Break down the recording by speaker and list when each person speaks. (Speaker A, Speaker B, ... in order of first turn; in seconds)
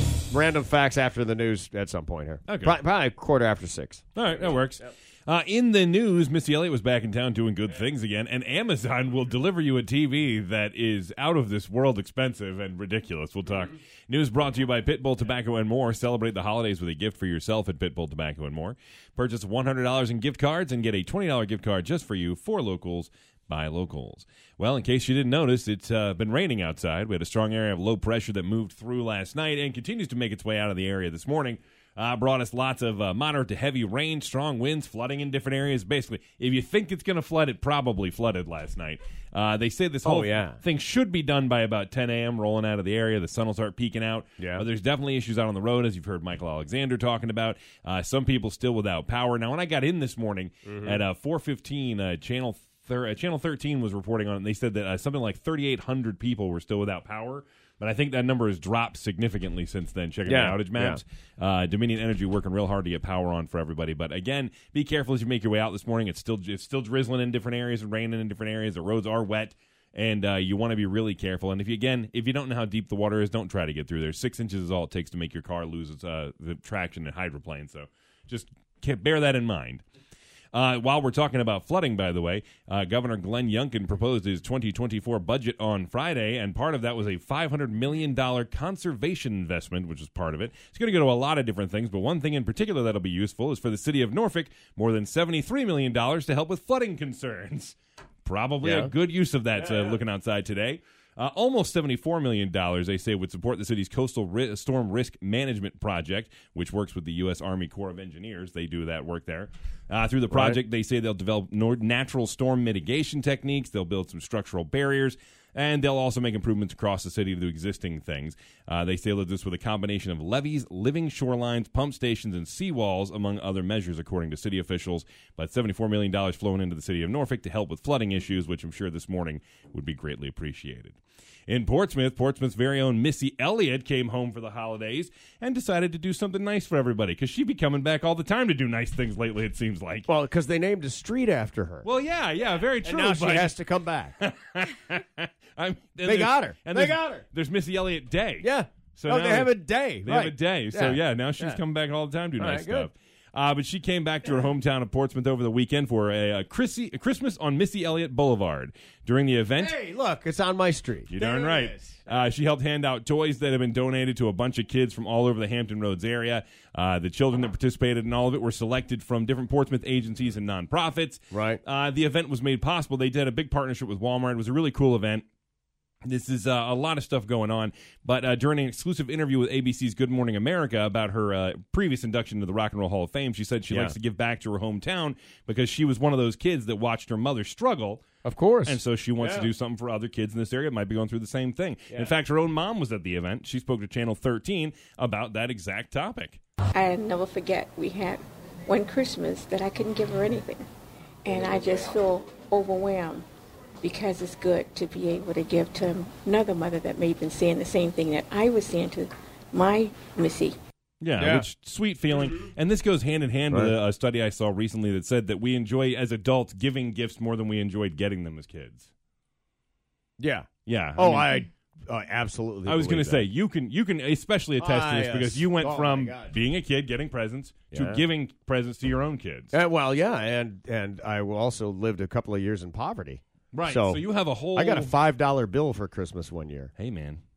Speaker A: 0.3-4.9, 40.0-40.6, 44.4-44.6, 50.6-51.0, 60.2-61.0, 98.6-98.9, 99.6-100.0, 110.3-110.6, 140.1-141.9, 142.8-144.1, 146.0-147.2, 148.4-151.6, 152.4-152.9, 159.6-162.2, 171.3-171.6, 183.7-183.9, 188.2-189.5, 211.2-211.5, 220.2-223.3, 224.6-226.4, 227.7-228.0, 229.5-236.7
Speaker B: 2.5-2.7, 4.1-79.8, 80.5-140.1, 141.8-143.5, 144.2-159.7, 161.1-175.2, 176.0-188.0, 188.7-196.4, 211.0-218.9, 220.7-221.4, 222.7-229.5, 233.5-234.9, 236.8-237.2
Speaker C: 196.7-200.7, 201.2-203.2, 203.8-210.5